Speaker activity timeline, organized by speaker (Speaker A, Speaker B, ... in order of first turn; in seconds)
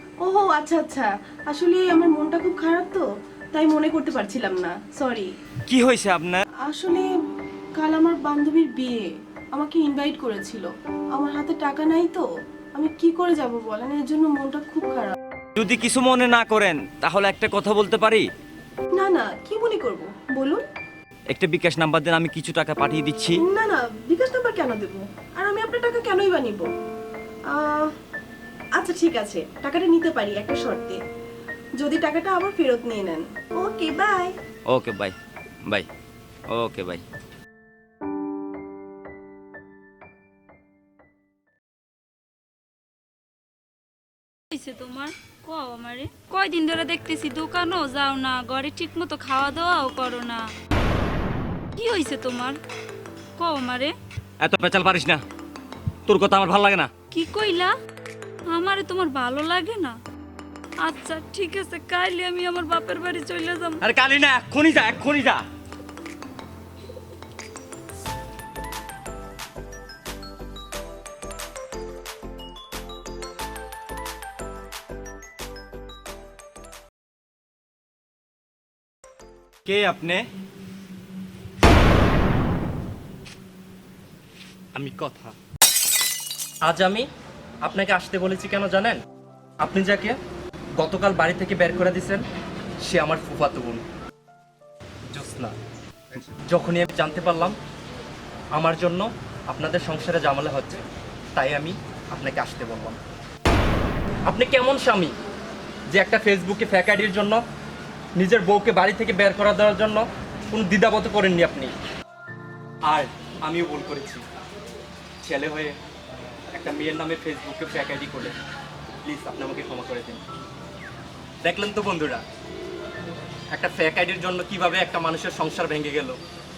Speaker A: 0.2-5.3, 6.7-7.1, 7.8-15.2, 19.0-20.6, 23.4-26.7, 27.5-27.9, 28.8-31.0, 31.8-34.3
Speaker B: 5.7-6.4, 15.6-18.2, 21.3-23.4, 34.7-35.1, 36.5-37.0, 54.4-55.2, 56.0-56.9, 63.8-65.4, 79.7-80.2
Speaker C: 44.5-50.5, 51.8-52.6, 53.4-53.9, 57.1-57.7, 58.5-60.0, 60.8-63.8
Speaker D: 84.7-85.3, 86.6-87.1, 87.6-89.0, 89.6-90.2, 90.8-92.2, 92.8-93.8, 95.1-95.5, 96.5-97.5, 98.5-100.8, 101.3-103.0, 104.3-105.1, 105.9-107.4, 108.2-111.7, 112.8-114.2, 115.2-115.8, 116.5-118.3, 119.0-120.2, 121.4-122.2, 123.5-126.2